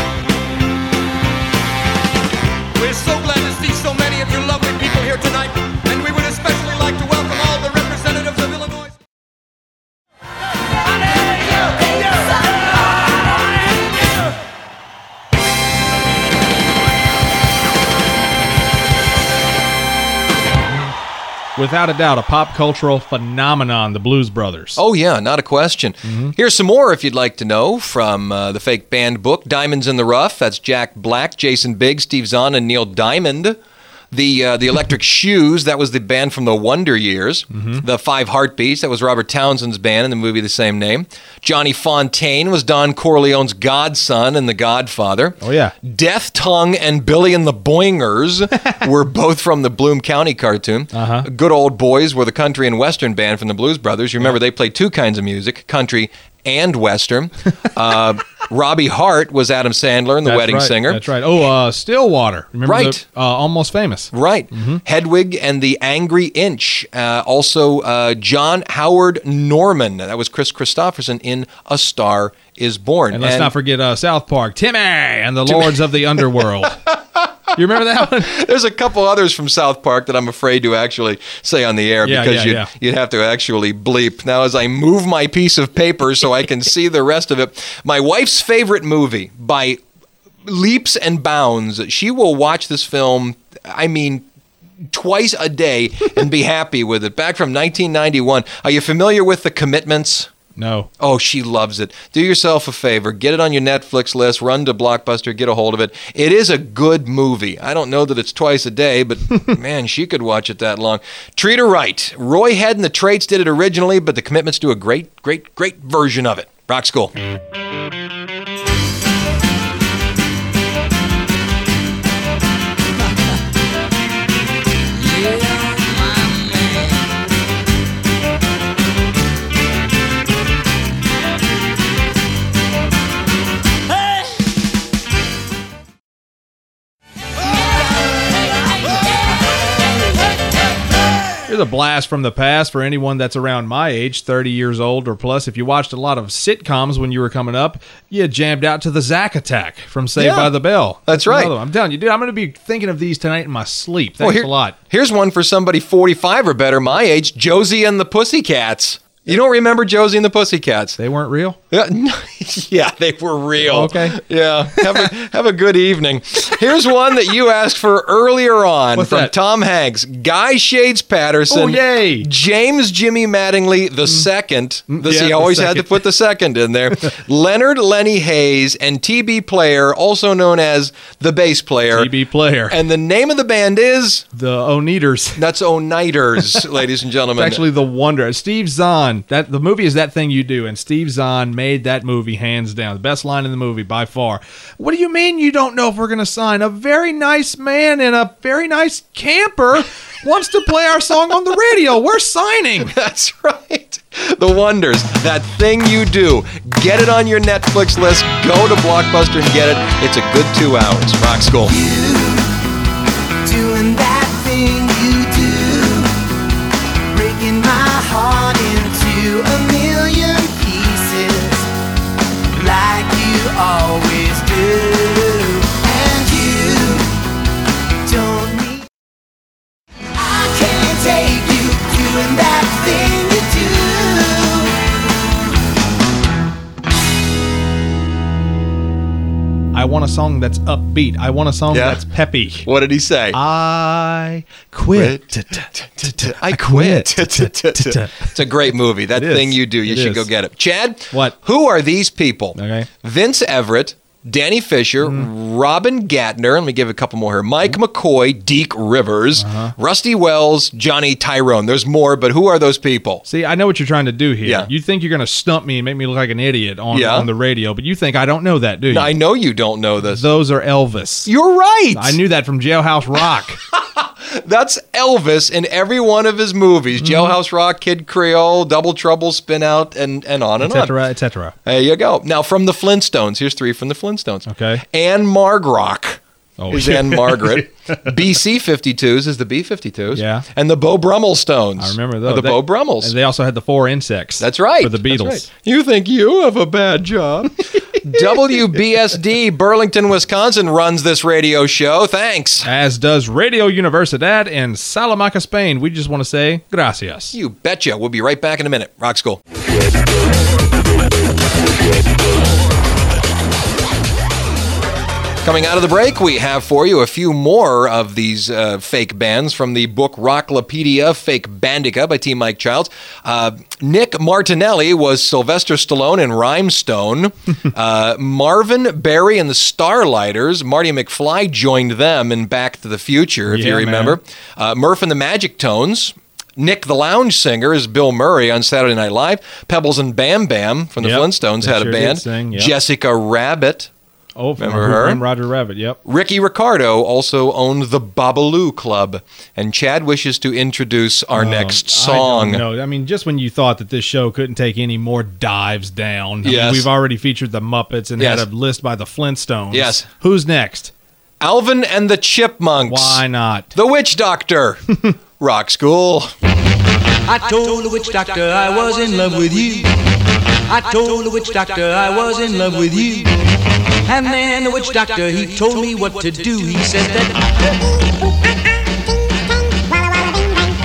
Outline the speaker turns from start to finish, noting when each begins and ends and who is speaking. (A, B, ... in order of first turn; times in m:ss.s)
0:02.8-0:03.3 A
0:05.0-0:08.8 A
0:21.6-0:24.8 B
0:24.8-0:33.6 C
0:26.1-0:26.3 B
0:34.1-1:01.0 C
0:37.5-0:37.8 B
0:45.4-0:45.8 B
0:50.9-0:51.3 B
1:00.2-1:04.8 B
1:02.7-1:03.0 C
1:04.1-1:13.5 C
1:13.1-1:16.8 B
1:15.5-1:16.4 C
1:17.5-1:18.4 B
1:18.2-1:29.8 C
1:22.0-1:22.7 B
1:30.4-1:34.2 C
1:34.9-1:40.3 C
1:40.6-1:40.9 B
1:41.0-1:57.1 C
2:05.2-2:05.5 D
2:21.5-2:34.8 B
2:30.2-2:30.5 C
2:31.1-2:31.5 C
2:34.2-2:41.0 C
2:41.0-2:41.6 B
2:41.7-3:02.1 C
2:43.6-2:44.2 B
2:44.8-2:45.1 B
2:49.0-2:49.3 B
2:51.5-2:52.3 B
2:54.9-2:56.0 B
3:01.9-3:02.8 B
3:02.7-3:04.3 C
3:04.3-3:05.4 B
3:05.4-3:07.6 C
3:07.4-3:22.9 B
3:22.9-3:31.7 C
3:31.6-3:32.5 E
3:33.4-3:36.2 E
3:37.1-3:41.7 E
3:42.5-3:47.1 E
3:48.0-3:48.9 E
3:50.2-3:54.8 E
3:59.7-4:02.7 B
4:01.7-4:02.0 C
4:02.6-4:03.4 C
4:03.3-4:10.3 B
4:04.9-4:23.2 C
4:11.1-4:11.4 B
4:12.6-4:12.9 B
4:15.0-4:15.3 B
4:19.4-4:19.7 B
4:23.2-4:29.2 B
4:24.4-4:24.7 C
4:26.9-4:27.3 C
4:28.9-4:30.2 C
4:30.0-4:31.3 B
4:31.3-4:32.2 C
4:31.9-4:33.6 B
4:33.7-4:41.0 C
4:37.0-4:37.3 B
4:40.6-4:41.6 B
4:41.6-4:46.2 C
4:44.5-4:44.8 B
4:46.6-4:48.1 B
4:46.7-4:53.1 C
4:50.1-4:50.4 B
4:51.8-4:55.5 B
4:54.4-5:02.7 C
5:02.6-5:07.4 B
5:07.3-5:09.4 C
5:15.4-5:43.9 C
5:33.5-5:34.2 B
5:41.0-5:42.7 B
5:44.4-5:46.0 B
5:44.6-5:45.2 C
5:46.0-5:52.6 C
5:51.3-6:00.9 B
5:56.4-5:56.9 C
5:58.2-5:58.5 C
5:59.7-6:00.0 C
6:01.4-6:03.2 C
6:02.9-6:03.7 B
6:03.7-6:06.3 C
6:07.3-6:09.9 D
6:10.7-6:13.5 D
6:14.1-6:17.6 D